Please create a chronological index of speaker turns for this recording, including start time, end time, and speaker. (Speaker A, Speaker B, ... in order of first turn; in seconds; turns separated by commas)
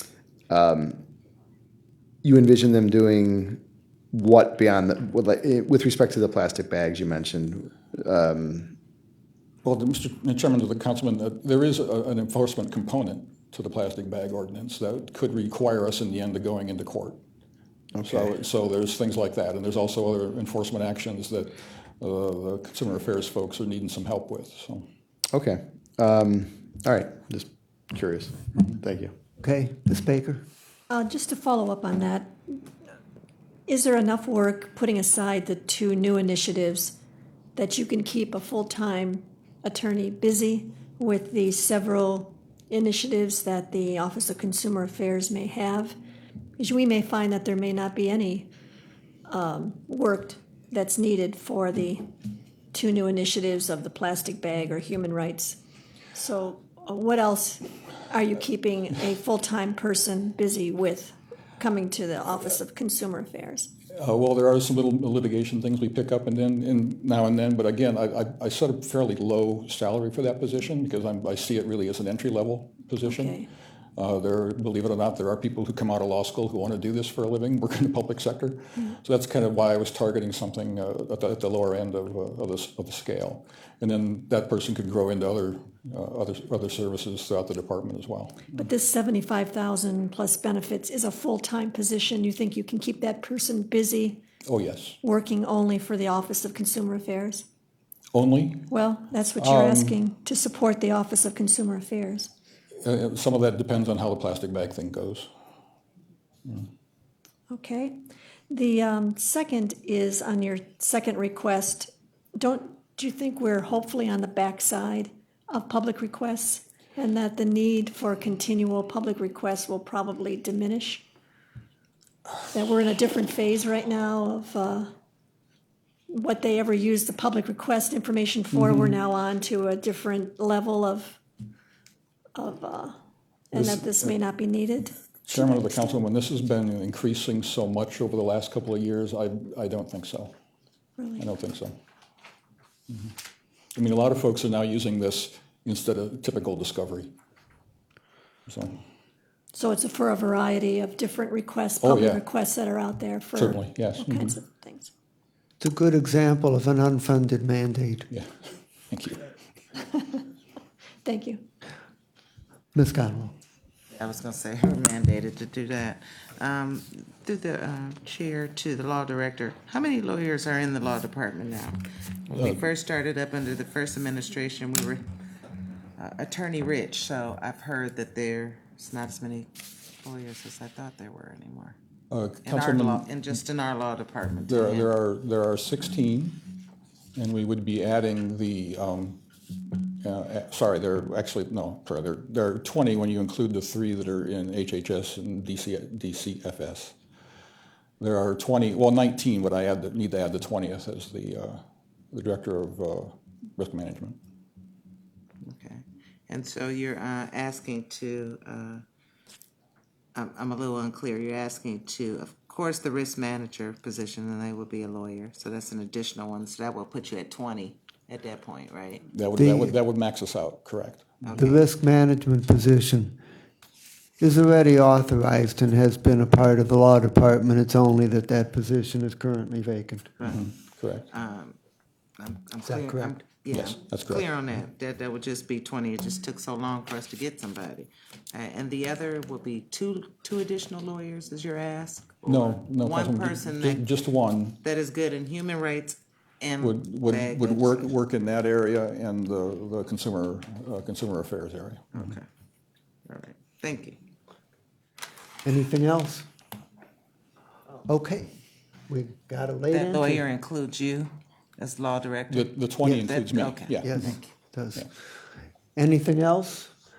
Speaker A: 0.5-1.0, Speaker A: 2.2-3.6, Speaker A: 4.1-8.8, Speaker B: 9.6-17.2, Speaker B: 17.9-24.9, Speaker A: 18.0-18.3, Speaker A: 25.3-29.1, Speaker C: 29.4-30.4, Speaker D: 30.9-32.4, Speaker D: 33.7-37.0, Speaker D: 37.6-46.0, Speaker D: 46.6-48.5, Speaker D: 49.3-52.0, Speaker D: 52.7-55.6, Speaker D: 56.1-63.7, Speaker B: 63.9-73.4, Speaker D: 73.0-73.5, Speaker B: 74.0-88.6, Speaker D: 88.5-94.2, Speaker B: 94.5-95.0, Speaker D: 95.0-97.5, Speaker B: 98.1-98.7, Speaker D: 98.7-102.3, Speaker B: 99.4-100.0, Speaker B: 102.8-105.3, Speaker D: 107.5-107.9, Speaker D: 108.5-121.0, Speaker D: 122.5-124.9, Speaker D: 126.1-131.2, Speaker D: 132.3-132.9, Speaker D: 133.5-135.9, Speaker B: 135.3-140.3, Speaker D: 141.0-141.3, Speaker B: 141.2-141.8, Speaker B: 143.8-147.1, Speaker B: 148.5-148.8, Speaker D: 149.5-154.9, Speaker B: 151.8-152.2, Speaker B: 153.3-154.4, Speaker C: 155.6-158.1, Speaker B: 158.9-159.2, Speaker D: 161.1-161.4, Speaker C: 162.7-163.4, Speaker E: 163.9-175.0, Speaker E: 176.0-181.8, Speaker B: 182.1-183.1, Speaker E: 182.4-184.9, Speaker B: 184.5-186.5, Speaker B: 187.2-189.2, Speaker B: 190.0-196.9, Speaker B: 198.0-204.2, Speaker E: 205.4-208.8, Speaker E: 210.2-219.1, Speaker B: 219.1-221.4, Speaker C: 219.3-219.8, Speaker E: 221.2-221.6, Speaker C: 221.4-223.2, Speaker C: 224.2-230.2, Speaker E: 230.2-230.5, Speaker B: 230.3-231.1, Speaker E: 231.1-231.6, Speaker E: 232.2-243.8, Speaker C: 232.6-233.3, Speaker B: 233.5-234.2, Speaker B: 242.3-244.6, Speaker E: 244.6-247.9, Speaker B: 246.6-252.2, Speaker E: 251.9-252.2, Speaker E: 253.1-254.0, Speaker C: 255.4-256.3, Speaker C: 257.9-258.3, Speaker C: 258.9-260.2, Speaker E: 259.7-263.7, Speaker B: 262.3-264.2, Speaker C: 262.8-263.2, Speaker C: 263.8-265.0, Speaker C: 265.8-266.8